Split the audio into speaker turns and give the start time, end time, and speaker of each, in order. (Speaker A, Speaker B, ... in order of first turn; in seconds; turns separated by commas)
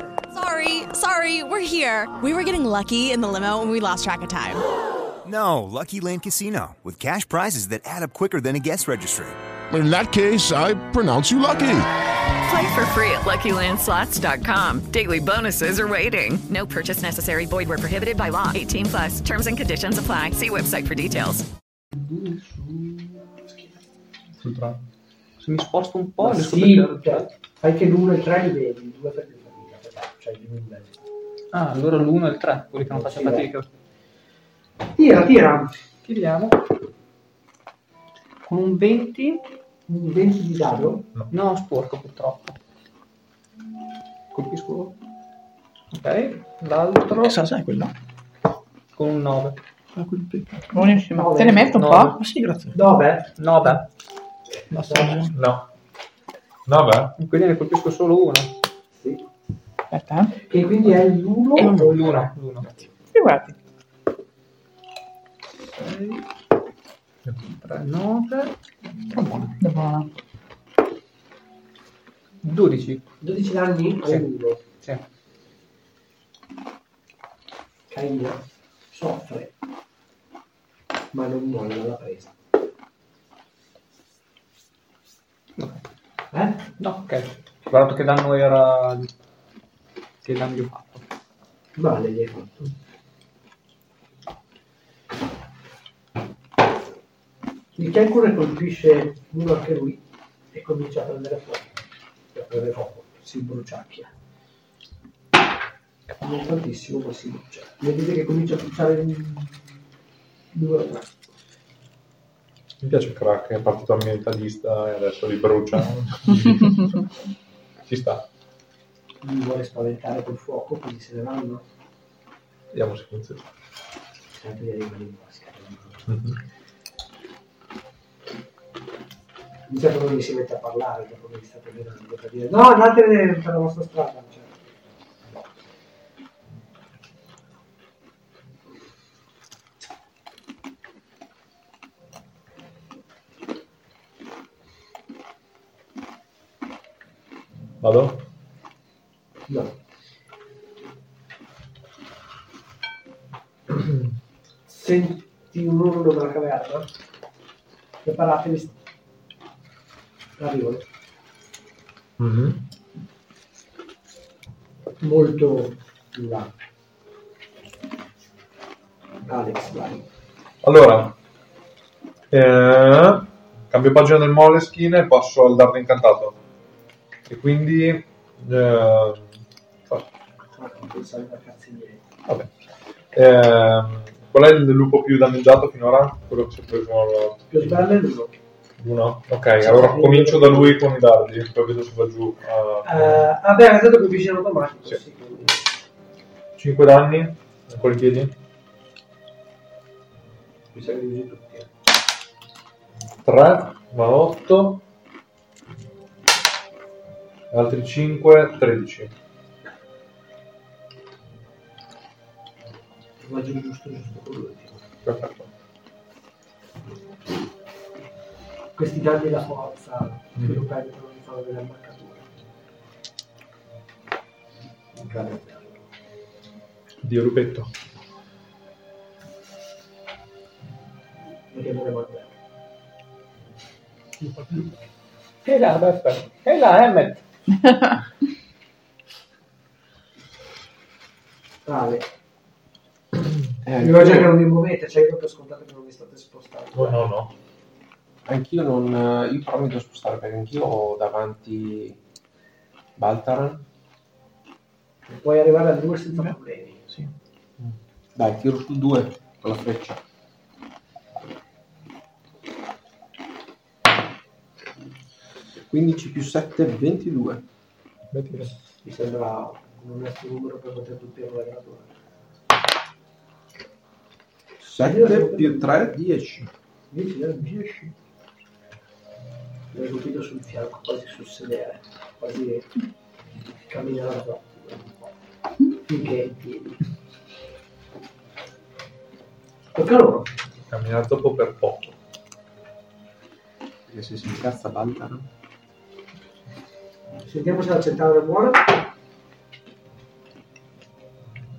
Speaker A: 0.3-4.6, Speaker B: 5.2-9.4, Speaker C: 9.7-11.9, Speaker D: 12.4-21.4, Speaker E: 21.9-23.2, Speaker F: 24.4-24.8, Speaker E: 25.4-27.3, Speaker G: 26.2-31.0, Speaker E: 31.5-33.7, Speaker G: 32.9-33.5, Speaker G: 34.9-35.8, Speaker E: 36.0-36.6, Speaker E: 38.5-39.4, Speaker G: 39.9-41.0, Speaker E: 41.3-42.5, Speaker E: 44.3-44.9, Speaker E: 45.9-47.4, Speaker H: 47.2-47.9, Speaker E: 49.0-49.6, Speaker H: 50.0-50.7, Speaker I: 50.7-52.2, Speaker G: 51.1-51.8, Speaker H: 51.7-52.8, Speaker G: 52.7-53.7, Speaker E: 53.4-53.8, Speaker H: 54.7-55.3, Speaker G: 54.8-55.3, Speaker F: 55.3-55.6, Speaker F: 56.7-57.1, Speaker E: 57.2-58.5, Speaker G: 58.9-59.2, Speaker I: 59.9-60.3, Speaker G: 60.4-62.8, Speaker E: 61.6-62.7, Speaker I: 63.1-63.5, Speaker E: 65.7-66.2, Speaker E: 67.5-68.5, Speaker H: 69.1-69.6, Speaker I: 69.6-70.1, Speaker E: 72.4-73.0, Speaker G: 73.2-74.6, Speaker E: 74.0-75.0, Speaker G: 77.9-79.5, Speaker G: 81.1-82.3, Speaker G: 86.3-86.7, Speaker E: 86.8-89.1, Speaker E: 90.2-91.0, Speaker G: 91.8-92.7, Speaker G: 97.8-101.8, Speaker G: 102.3-104.1, Speaker G: 106.1-109.8, Speaker G: 110.5-111.1, Speaker F: 112.8-117.1, Speaker F: 117.9-118.2, Speaker G: 119.2-121.6, Speaker F: 122.7-123.5, Speaker G: 124.3-126.0, Speaker F: 126.1-126.4, Speaker G: 129.7-134.6, Speaker F: 147.8-148.2, Speaker G: 149.5-149.8, Speaker G: 154.7-156.9, Speaker G: 158.0-158.8, Speaker G: 160.4-160.8, Speaker F: 162.2-162.6, Speaker G: 165.0-166.5, Speaker G: 169.2-170.0, Speaker F: 170.6-171.1, Speaker F: 172.3-176.3, Speaker F: 177.3-179.3, Speaker G: 180.5-182.0, Speaker F: 183.1-187.9, Speaker G: 187.5-188.3, Speaker F: 188.8-193.3, Speaker G: 189.6-190.8, Speaker G: 192.8-195.7, Speaker F: 196.6-198.3, Speaker G: 200.7-201.7, Speaker F: 203.2-204.8, Speaker F: 207.5-209.1, Speaker G: 213.2-214.8, Speaker F: 215.0-215.5, Speaker G: 218.8-222.3, Speaker F: 220.4-220.6, Speaker G: 225.0-225.8, Speaker F: 227.0-227.7, Speaker G: 231.5-232.3, Speaker E: 235.4-237.2, Speaker G: 241.7-242.1, Speaker J: 243.7-244.3, Speaker G: 243.8-247.1, Speaker F: 246.7-247.3, Speaker J: 248.2-252.0, Speaker J: 253.0-253.6, Speaker G: 255.1-256.8, Speaker J: 258.1-260.0, Speaker J: 265.7-267.4, Speaker F: 268.1-268.5, Speaker G: 268.4-271.9, Speaker J: 274.6-276.5, Speaker G: 274.8-276.0, Speaker G: 276.9-277.9, Speaker G: 279.7-282.7, Speaker G: 283.6-285.1, Speaker G: 285.8-286.8, Speaker G: 289.8-290.3, Speaker F: 290.7-291.9, Speaker J: 293.9-295.3, Speaker G: 297.2-298.7